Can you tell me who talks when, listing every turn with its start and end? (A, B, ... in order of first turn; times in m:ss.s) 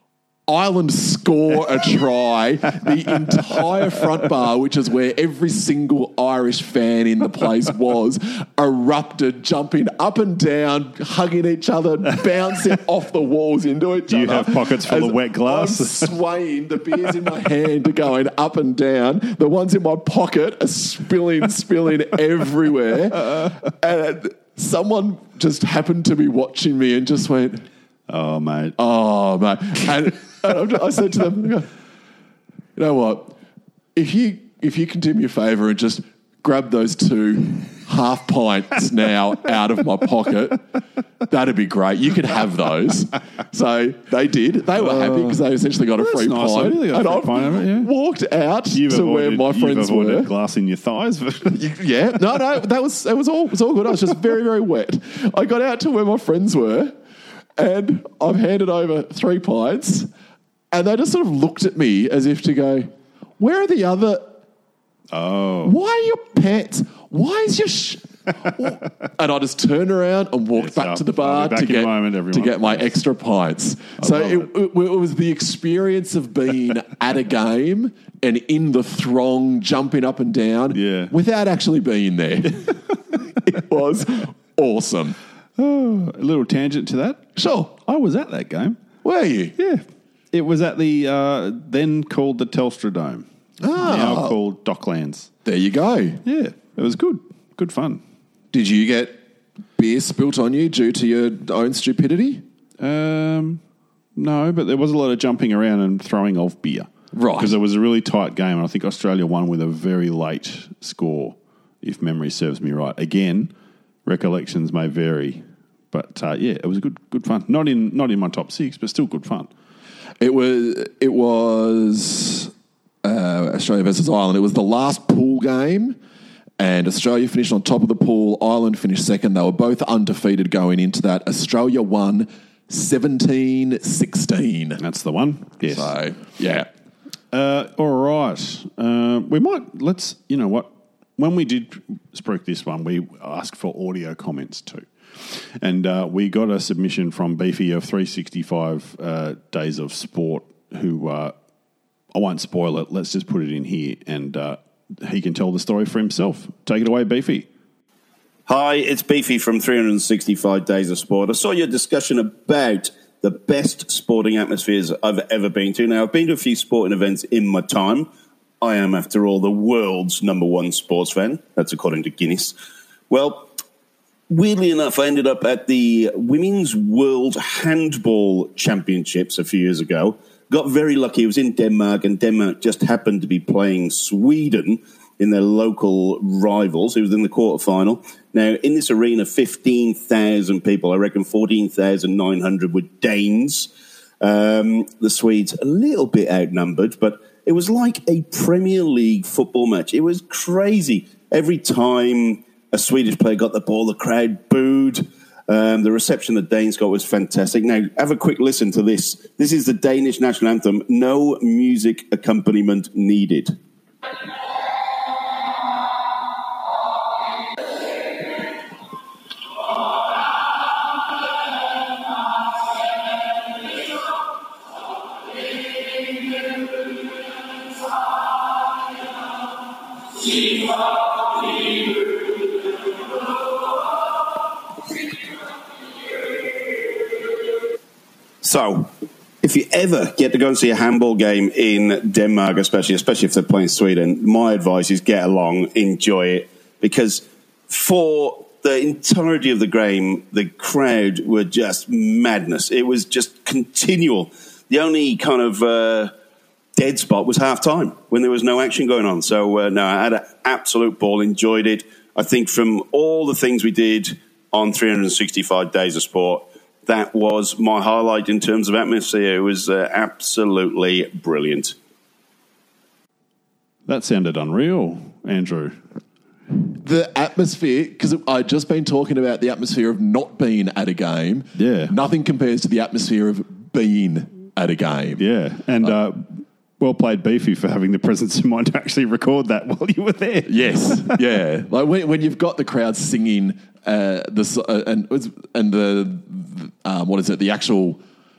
0:00.5-0:27.7 A
0:14.1-0:16.2 B
0:28.1-0:28.8 B
0:28.8-0:31.7 A
0:32.8-0:33.4 A
0:34.0-0:40.6 A
0:41.3-0:50.3 A
0:44.8-0:45.4 B
0:46.0-0:47.9 B
0:48.7-0:51.6 B
0:51.6-0:57.0 A
0:57.6-1:00.1 A
1:00.7-1:04.3 A
1:05.1-1:05.8 B
1:05.6-1:25.2 A
1:10.6-1:12.9 B
1:14.0-1:14.5 B
1:20.7-1:21.1 B
1:25.6-1:28.8 B
1:27.4-1:27.7 A
1:29.0-1:29.6 A
1:29.6-1:33.3 B
1:33.6-1:34.4 A
1:33.8-1:35.3 B
1:35.4-1:36.2 A
1:36.2-1:38.0 B
1:38.5-1:39.2 A
1:39.8-1:42.4 A
1:42.8-1:43.6 B
1:44.2-1:53.5 B
1:47.1-1:47.6 A
1:54.1-1:59.5 B
2:00.2-2:02.5 A
2:03.0-2:06.0 A
2:06.6-2:14.8 A
2:14.8-2:16.0 B
2:15.7-2:16.7 A
2:17.3-2:31.4 B
2:32.1-2:37.5 B
2:38.5-2:48.1 C
2:48.6-2:52.5 C
2:53.1-2:53.5 C
2:54.3-3:13.7 C
3:14.2-3:33.6 C
3:58.4-3:58.9 C
3:59.4-4:16.1 C
4:16.8-4:31.8 C
4:33.9-4:35.8 B
4:36.8-4:45.2 A
4:41.6-4:42.0 B
4:45.2-4:51.2 B
4:50.5-4:58.0 A